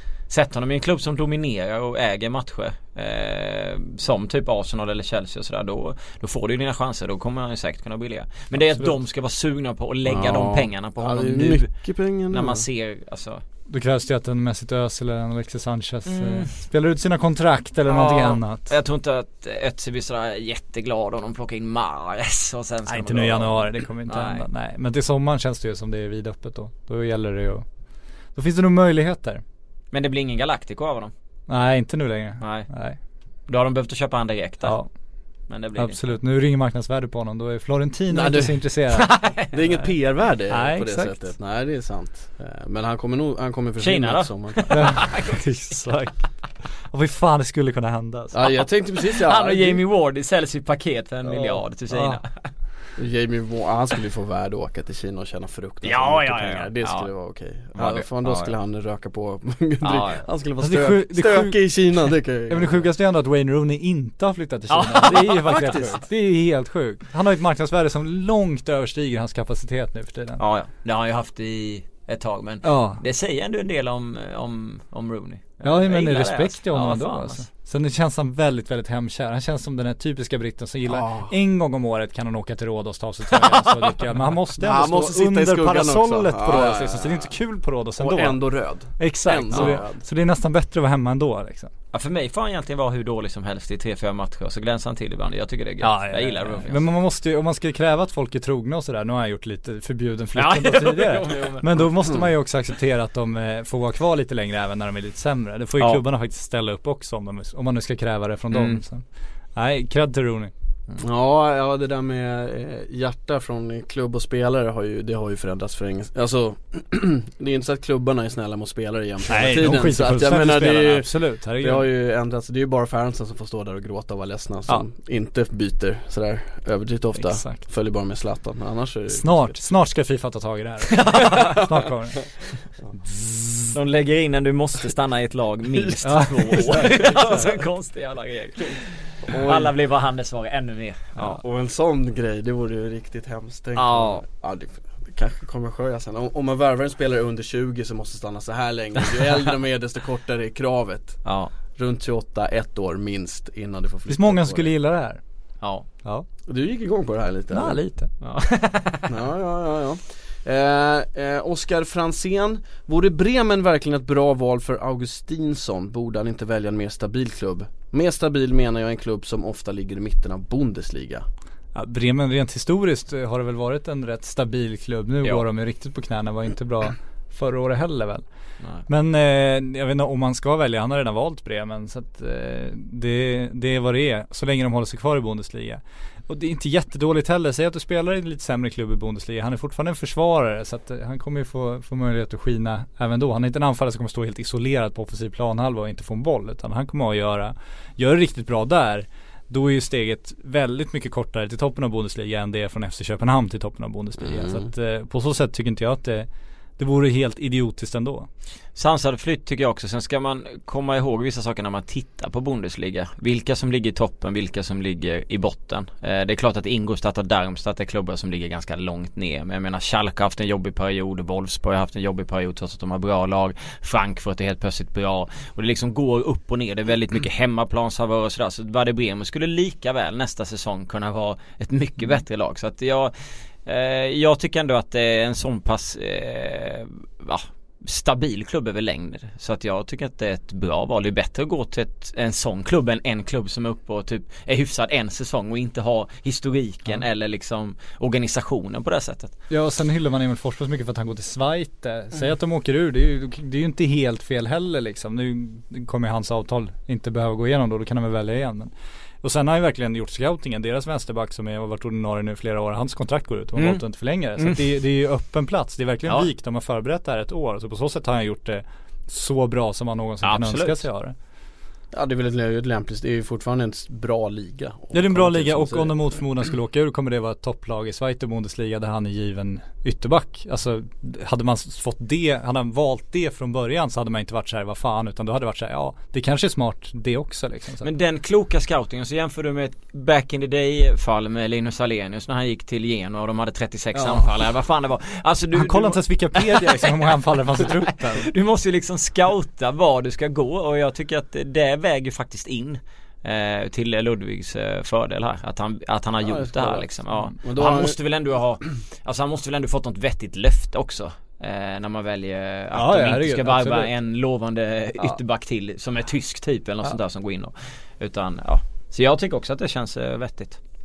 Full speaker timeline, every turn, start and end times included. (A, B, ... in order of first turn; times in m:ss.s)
0:00.3-0:13.4 A
0:08.5-0:09.0 B
0:10.0-0:12.6 C
0:13.7-0:18.7 B
0:16.0-0:16.5 A
0:17.9-0:24.4 A
0:22.9-0:27.6 B
0:28.3-0:29.4 B
0:29.9-0:31.1 A
0:31.5-0:33.0 B
0:32.4-0:32.7 A
0:33.5-0:34.8 A
0:34.6-0:34.9 B
0:35.5-0:36.1 A
0:35.7-0:39.2 B
0:38.1-0:38.6 C
0:38.9-0:39.5 A
0:39.5-0:45.0 C
0:40.5-0:41.3 B
0:43.8-0:45.7 A
0:44.7-0:46.3 B
0:46.9-0:48.6 B
0:48.3-0:49.8 C
0:49.0-0:52.5 A
0:51.9-0:52.2 B
0:53.0-1:02.8 C
0:55.8-0:57.1 A
0:57.7-0:58.5 A
0:59.8-1:00.2 A
1:00.6-1:10.4 B
1:04.7-1:05.8 A
1:05.3-1:06.0 C
1:10.4-1:17.5 A
1:12.6-1:13.0 B
1:15.6-1:28.4 B
1:20.9-1:21.3 C
1:23.4-1:24.0 A
1:24.6-1:27.3 C
1:28.0-1:30.0 C
1:29.0-1:31.7 B
1:31.9-1:36.9 A
1:35.8-1:49.0 B
1:40.3-1:41.8 A
1:48.5-1:48.8 A
1:49.5-1:50.5 B
1:51.0-2:09.6 C
1:59.2-2:01.9 B
2:07.1-2:07.6 B
2:09.1-2:12.2 B
2:11.0-2:11.6 A
2:13.0-2:13.7 B
2:13.7-2:21.4 A
2:16.0-2:17.4 B
2:16.6-2:17.5 C
2:19.3-2:19.7 C
2:21.2-2:21.4 B
2:21.4-2:34.7 C
2:23.8-2:24.2 A
2:31.2-2:31.5 A
2:34.1-2:35.2 B
2:35.6-2:35.9 A
2:36.5-2:37.8 C
2:37.5-2:38.1 B
2:38.2-2:39.1 A
2:39.1-2:51.2 C
2:51.7-2:58.2 B
2:58.8-3:28.3 B
3:24.2-3:24.6 C
3:28.7-4:09.3 A
4:09.5-4:31.1 B
4:23.6-4:23.8 A
4:30.2-4:30.8 A
4:31.9-4:36.0 C
4:34.9-4:47.9 B
4:47.8-5:20.6 A
4:53.9-4:54.3 B
4:55.5-4:58.3 B
5:06.2-5:08.0 C
5:12.7-5:13.9 B